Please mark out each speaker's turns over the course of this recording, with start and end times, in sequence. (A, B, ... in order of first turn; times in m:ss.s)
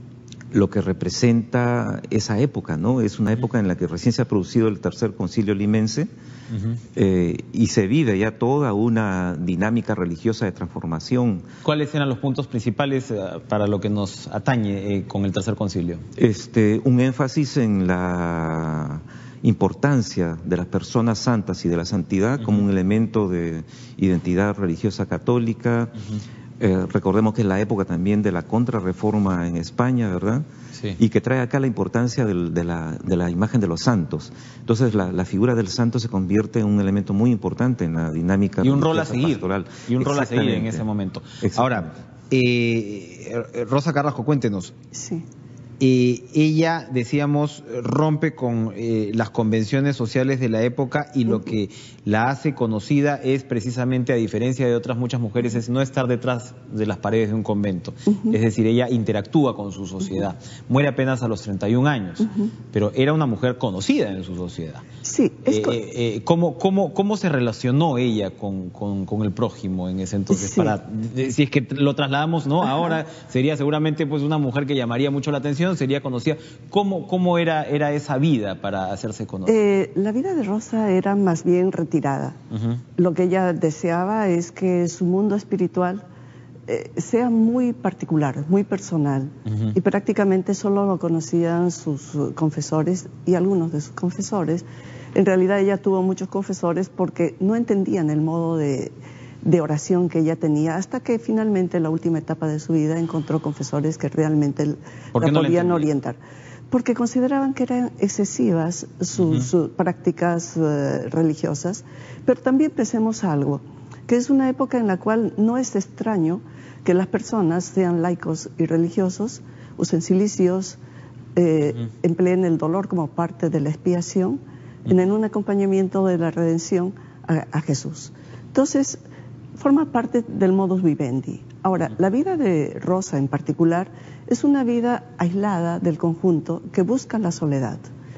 0:00.5-0:06.1 A
0:07.0-0:11.5 A
0:11.6-0:16.0 B
0:16.2-0:26.0 A
0:26.6-0:30.5 A
0:31.0-0:40.8 A
0:38.6-0:44.8 B
0:41.4-0:41.9 A
0:44.9-0:45.2 C
0:45.8-1:04.8 B
0:58.1-0:58.4 C
1:05.0-1:05.8 C
1:05.4-1:19.6 B
1:10.3-1:10.8 C
1:19.5-1:22.4 C
1:22.5-1:22.8 B
1:23.0-1:26.0 C
1:26.7-1:34.6 C
1:29.5-1:29.8 B
1:35.2-1:46.2 C
1:45.1-1:45.9 B
1:46.7-2:00.8 C
1:49.2-1:49.5 B
2:01.4-2:09.0 C
2:09.6-2:17.9 C